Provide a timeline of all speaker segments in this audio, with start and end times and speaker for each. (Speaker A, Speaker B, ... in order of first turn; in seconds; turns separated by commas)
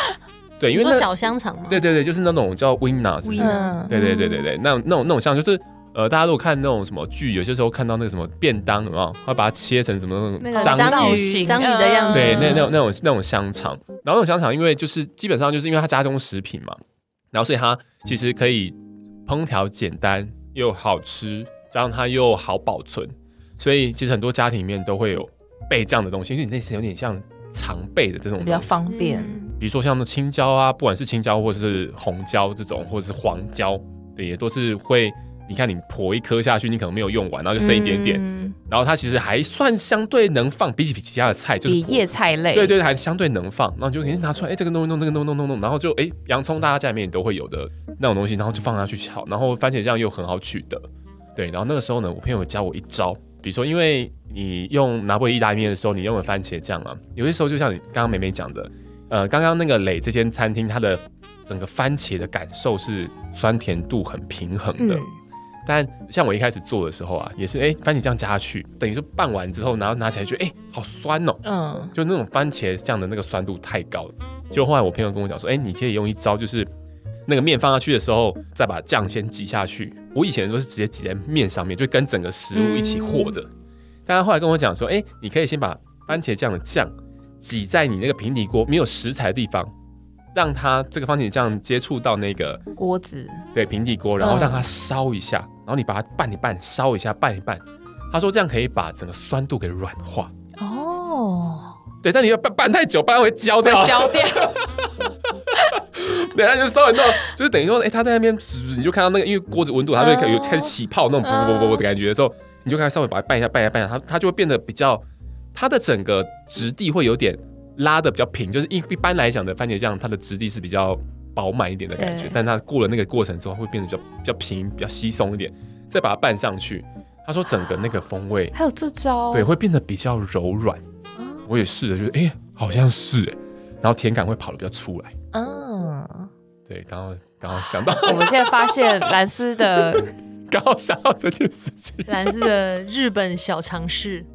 Speaker A: 0.6-1.1, Speaker B: 0.7-1.8, Speaker A: 1.7-11.3, Speaker B: 3.2-4.0, Speaker C: 3.4-4.5, Speaker B: 10.4-12.7, Speaker C: 10.6-12.7, Speaker A: 12.1-16.8, Speaker A: 17.3-28.8, Speaker C: 28.4-29.4, Speaker B: 28.9-29.5, Speaker A: 29.5-65.0, Speaker C: 37.6-38.6, Speaker C: 41.6-42.8, Speaker C: 64.8-65.1, Speaker A: 65.6-71.4, Speaker C: 71.4-71.9, Speaker A: 71.9-76.7, Speaker A: 77.3-83.5, Speaker C: 82.5-83.4, Speaker A: 84.0-89.7, Speaker A: 90.3-92.6, Speaker C: 92.8-93.4, Speaker A: 93.5-100.3, Speaker C: 94.2-94.7, Speaker C: 100.6-101.8, Speaker A: 102.0-104.9, Speaker C: 103.6-104.6, Speaker A: 105.5-128.5, Speaker C: 110.0-111.8, Speaker C: 122.0-122.3, Speaker C: 128.5-129.5, Speaker A: 129.3-130.8, Speaker C: 131.2-131.5, Speaker A: 131.5-135.1, Speaker C: 135.3-136.3, Speaker A: 136.7-142.4, Speaker C: 137.7-140.1, Speaker B: 142.1-144.2